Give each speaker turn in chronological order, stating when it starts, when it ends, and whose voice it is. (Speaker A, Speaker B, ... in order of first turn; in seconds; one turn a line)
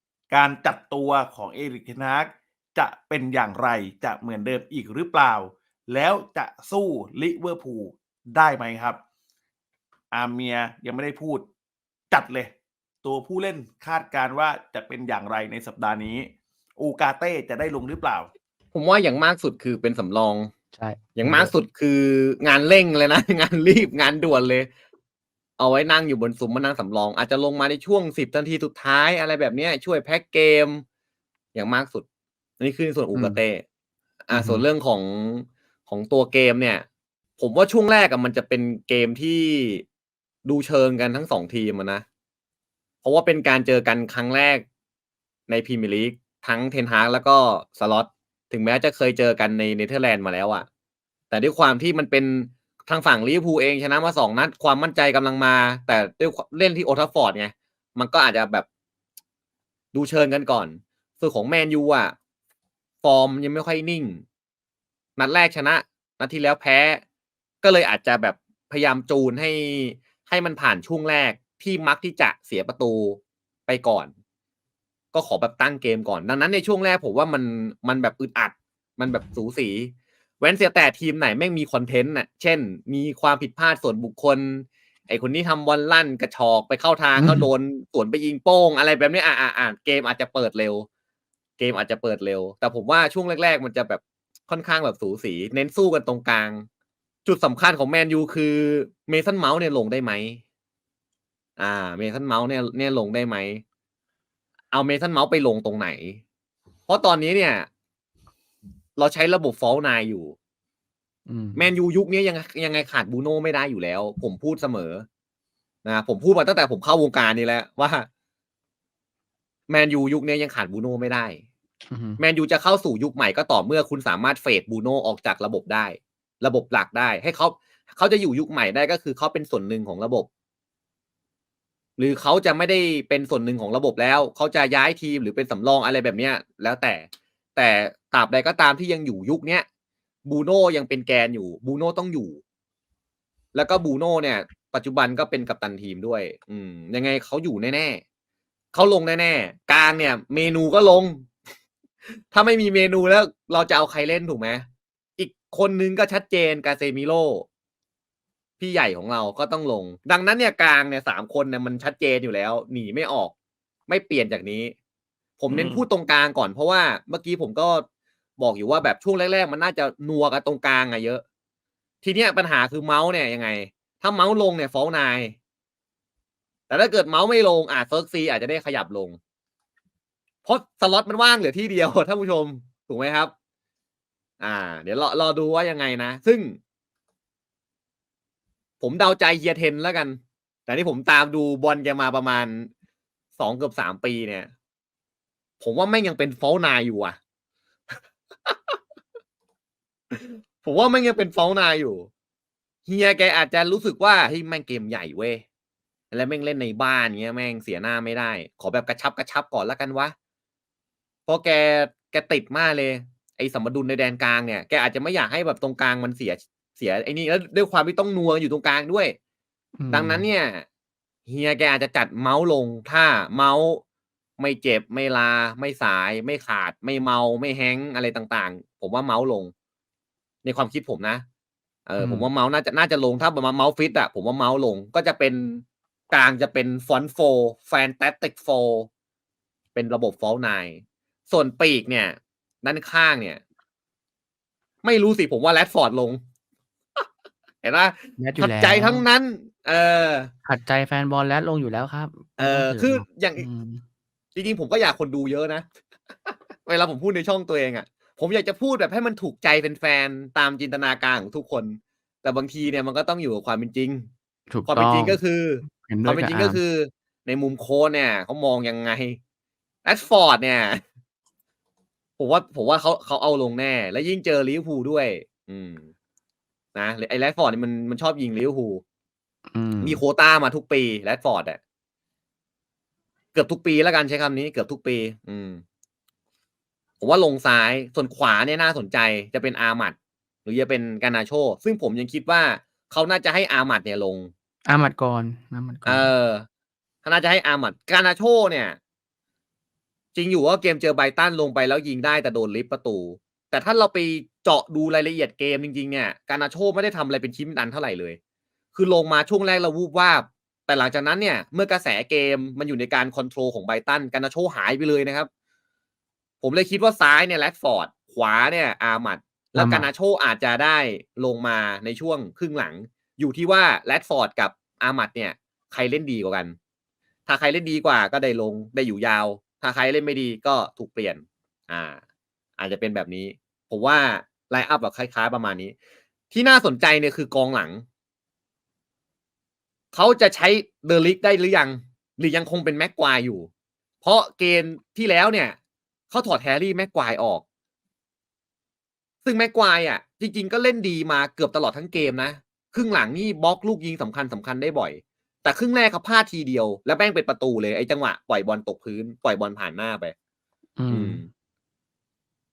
Speaker A: 0.3-9.0
Speaker A: 10.1-11.5
Speaker A: 12.1-18.3
Speaker B: 18.7-20.5
Speaker C: 20.7-21.5
Speaker B: 21.1-24.7
Speaker B: 25.6-30.8
Speaker B: 31.5-32.0
Speaker B: 32.6-33.6
Speaker B: 34.3-36.8
Speaker C: 34.3-34.6
Speaker B: 37.4-39.8
Speaker B: 40.4-42.0
Speaker B: 43.0-44.6
Speaker B: 45.5-50.7
Speaker B: 51.3-58.6
Speaker B: 59.9-62.1
Speaker B: 63.0-64.2
Speaker B: 65.2-67.0
Speaker B: 67.6-74.1
Speaker B: 75.1-90.8
Speaker C: 87.2-87.5
Speaker B: 91.6-96.7
Speaker B: 97.2-100.4
Speaker B: 101.6-103.6
Speaker B: 104.7-106.2
Speaker B: 106.9-107.7
Speaker B: 109.0-110.3
Speaker C: 111.3-111.7
Speaker B: 111.5-115.0
Speaker B: 115.8-118.1
Speaker B: 119.7-121.4
Speaker C: 121.9-122.2
Speaker B: 122.2-130.3
Speaker B: 132.0-137.0
Speaker B: 137.6-139.6
Speaker B: 140.2-142.4
Speaker B: 143.5-148.0
Speaker B: 148.7-151.3
Speaker B: 152.2-154.7
Speaker B: 155.2-157.4
Speaker B: 158.6-163.3
Speaker B: 163.9-164.7
Speaker B: 165.4-167.8
Speaker A: 165.5-165.8
Speaker B: 168.4-171.2
Speaker B: 172.0-175.3
Speaker B: 176.7-179.2
Speaker B: 180.4-183.3
Speaker B: 184.4-186.6
Speaker B: 188.8-192.7
Speaker B: 193.4-194.5
Speaker B: 195.6-197.2
Speaker B: 198.4-198.8
Speaker B: 200.1-202.1
Speaker B: 202.8-205.4
Speaker B: 206.1-210.1
Speaker B: 211.3-219.1
Speaker C: 219.8-220.2
Speaker B: 219.9-220.7
Speaker B: 221.3-223.8
Speaker B: 224.4-229.5
Speaker B: 230.4-231.2
Speaker B: 231.9-238.9
Speaker C: 232.0-232.3
Speaker B: 239.7-243.4
Speaker B: 244.8-246.2
Speaker B: 247.6-250.3
Speaker C: 248.2-249.0
Speaker C: 250.4-253.8
Speaker B: 252.4-253.4
Speaker B: 254.3-255.6
Speaker B: 256.6-264.1
Speaker C: 264.5-266.6
Speaker B: 264.6-269.2
Speaker B: 269.8-270.8
Speaker B: 272.2-275.9
Speaker B: 276.7-278.8
Speaker C: 279.5-280.0
Speaker B: 279.8-281.6
Speaker B: 283.3-285.6
Speaker B: 287.0-294.3
Speaker C: 294.6-296.1
Speaker B: 295.8-296.4
Speaker B: 297.0-298.8
Speaker B: 300.1-308.2
Speaker B: 308.7-315.3
Speaker B: 316.4-326.5
Speaker C: 319.6-319.9
Speaker B: 327.3-332.0
Speaker B: 332.6-335.7
Speaker B: 336.3-337.8
Speaker B: 339.9-343.5
Speaker B: 344.0-345.6
Speaker B: 346.1-347.4
Speaker B: 349.2-360.1
Speaker C: 360.8-361.2
Speaker B: 360.9-361.3